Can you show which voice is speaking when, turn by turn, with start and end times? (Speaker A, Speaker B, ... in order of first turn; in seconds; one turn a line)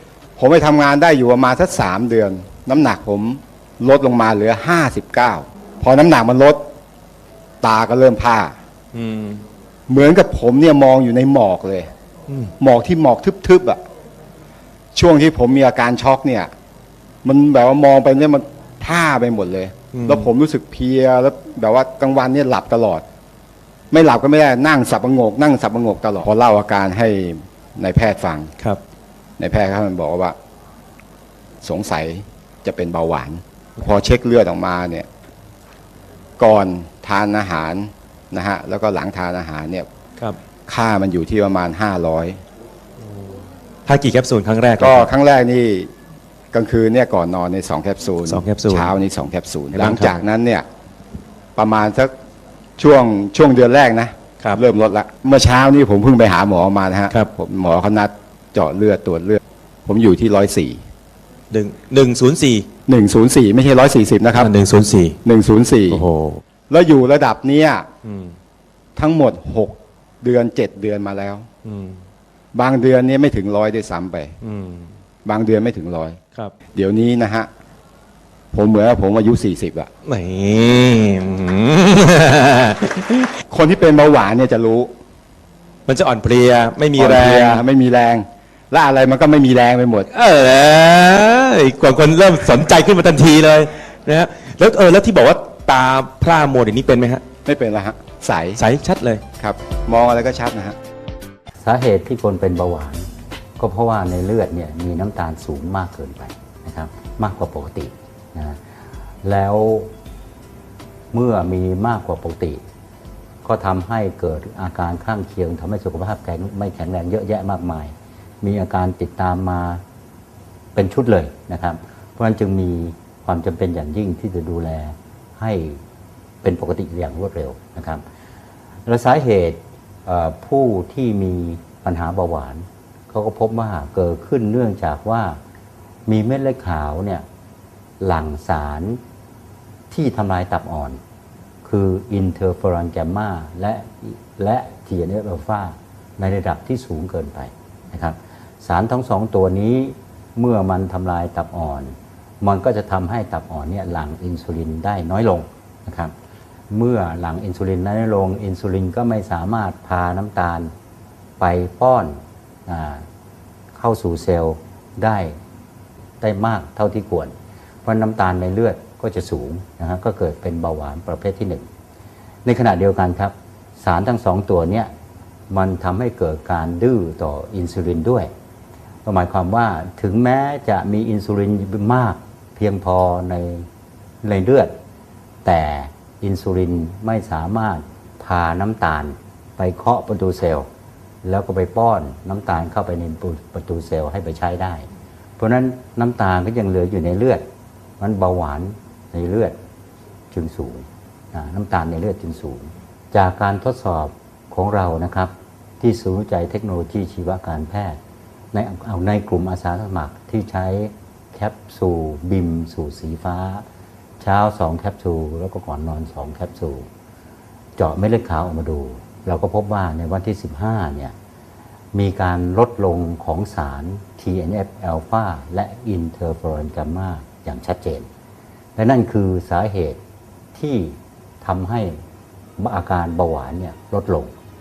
Speaker A: 0.4-6.6
Speaker A: 7.6-8.5
Speaker B: 8.9-9.4
Speaker A: 9.9-11.9
Speaker A: 12.6-13.8
Speaker A: 14.9-16.5
Speaker A: 17.2-23.0
Speaker B: 19.9-20.3
Speaker A: 23.9-28.5
Speaker A: 29.4-30.3
Speaker A: 31.6-35.1
Speaker A: 36.4-39.9
Speaker A: 40.7-42.4
Speaker B: 43.9-45.1
Speaker A: 44.8-45.9
Speaker A: 46.5-50.6
Speaker B: 48.2-48.9
Speaker B: 49.7-50.1
Speaker A: 51.5-52.1
Speaker A: 52.8-60.8
Speaker B: 61.5-62.7
Speaker A: 62.9-64.5
Speaker B: 64.3-65.2
Speaker A: 65.2-66.0
Speaker B: 65.9-66.4
Speaker A: 66.7-67.9
Speaker B: 68.0-68.3
Speaker A: 69.0-71.4
Speaker B: 71.6-72.0
Speaker A: 72.5-74.3
Speaker B: 74.4-74.9
Speaker A: 75.2-76.2
Speaker A: 76.7-77.5
Speaker A: 78.5-79.9
Speaker B: 80.0-83.4
Speaker A: 83.5-84.9
Speaker B: 85.9-87.6
Speaker A: 87.0-90.1
Speaker B: 90.1-97.2
Speaker A: 97.5-98.6
Speaker B: 98.6-99.2
Speaker A: 99.4-100.8
Speaker C: 101.6-103.0
Speaker C: 103.6-108.6
Speaker C: 109.2-109.9
Speaker C: 111.1-112.6
Speaker C: 113.4-119.8
Speaker C: 120.7-125.8
Speaker C: 126.4-128.0
Speaker C: 128.8-135.4
Speaker C: 136.1-137.2
Speaker C: 138.0-139.0
Speaker C: 139.9-141.0
Speaker C: 141.6-156.1
Speaker C: 156.7-160.7
Speaker C: 161.4-162.2
Speaker C: 162.7-163.0
Speaker C: 163.7-165.3
Speaker C: 166.2-167.3
Speaker C: 167.8-171.7
Speaker C: 172.4-174.9
Speaker C: 175.5-178.3
Speaker C: 179.0-183.7
Speaker C: 184.2-184.7
Speaker C: 185.4-190.7
Speaker C: 191.2-194.8
Speaker C: 195.4-197.4
Speaker C: 198.0-199.5
Speaker C: 200.3-208.0
Speaker C: 208.5-213.6
Speaker C: 214.2-216.9
Speaker C: 217.8-221.1
Speaker C: 221.9-228.1
Speaker C: 228.8-230.0
Speaker C: 230.5-232.0
Speaker C: 232.6-234.3